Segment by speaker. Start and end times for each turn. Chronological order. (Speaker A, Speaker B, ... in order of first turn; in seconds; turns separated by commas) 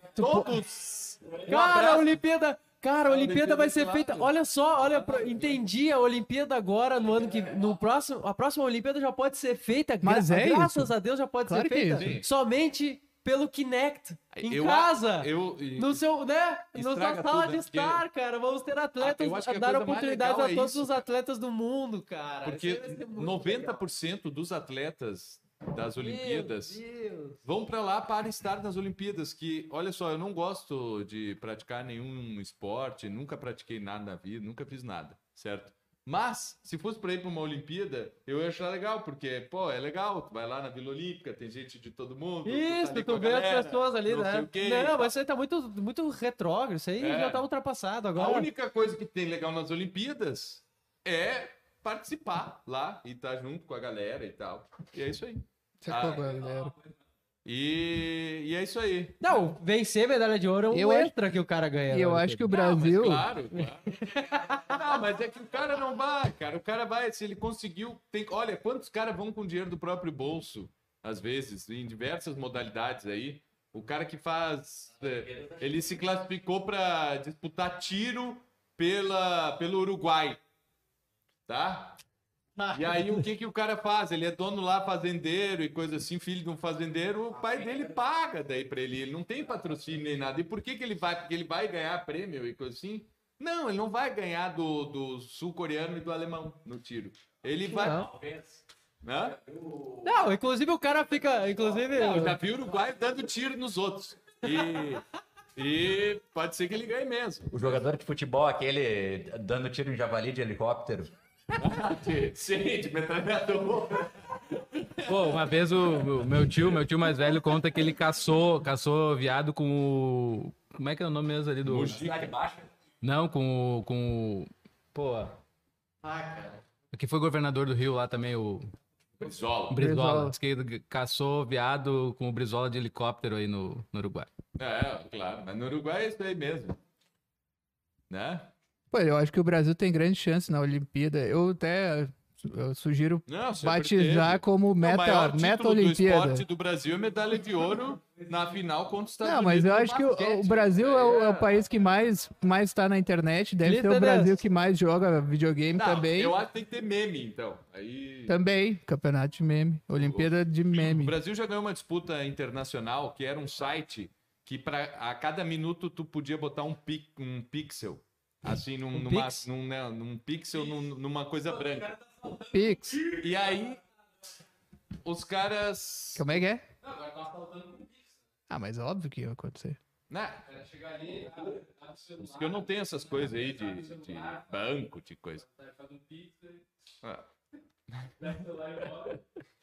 Speaker A: 0.1-0.5, Speaker B: 0.2-2.1, Speaker A: 1.4-23.8, Speaker B: 3.1-5.6, Speaker C: 10.0-10.9, Speaker C: 11.4-12.1, Speaker B: 11.9-12.3, Speaker B: 14.3-16.0, Speaker B: 16.7-18.0, Speaker B: 19.0-21.1, Speaker B: 22.4-26.8, Speaker A: 26.0-27.4, Speaker B: 27.4-45.1, Speaker A: 42.5-48.5, Speaker B: 47.0-47.4, Speaker B: 48.1-56.2, Speaker C: 55.8-56.7, Speaker B: 57.5-59.5, Speaker A: 59.2-62.6, Speaker C: 60.7-61.1, Speaker C: 61.9-63.3, Speaker B: 62.5-80.4, Speaker A: 63.5-65.0, Speaker B: 81.5-82.0, Speaker A: 82.6-83.1, Speaker B: 82.7-98.3, Speaker A: 97.7-98.1, Speaker B: 99.0-99.4, Speaker D: 99.7-100.0, Speaker A: 100.0-102.4, Speaker B: 101.8-105.0, Speaker B: 105.6-107.8, Speaker D: 107.5-111.1, Speaker B: 111.6-116.8, Speaker E: 115.0-122.0, Speaker B: 121.6-122.5, Speaker D: 122.3-122.6, Speaker E: 123.0-125.4, Speaker A: 126.0-126.6, Speaker E: 126.9-128.7, Speaker B: 129.2-129.8, Speaker E: 129.7-134.3, Speaker C: 129.7-130.4, Speaker B: 134.6-136.8, Speaker B: 138.1-138.5, Speaker C: 138.9-146.4, Speaker B: 143.3-151.6, Speaker C: 149.2-156.4, Speaker A: 153.6-154.4, Speaker B: 155.8-158.4, Speaker C: 158.3-161.2, Speaker B: 160.0-171.9, Speaker A: 168.9-169.4, Speaker E: 171.9-172.6, Speaker C: 172.5-173.1, Speaker B: 173.1-173.8, Speaker B: 175.0-176.3, Speaker C: 176.2-176.6, Speaker E: 176.8-178.0, Speaker C: 178.5-179.8, Speaker B: 180.1-180.4, Speaker E: 180.5-184.4, Speaker B: 182.2-185.4, Speaker E: 185.4-186.6, Speaker B: 187.0-187.3, Speaker B: 187.9-188.3, Speaker E: 188.2-189.2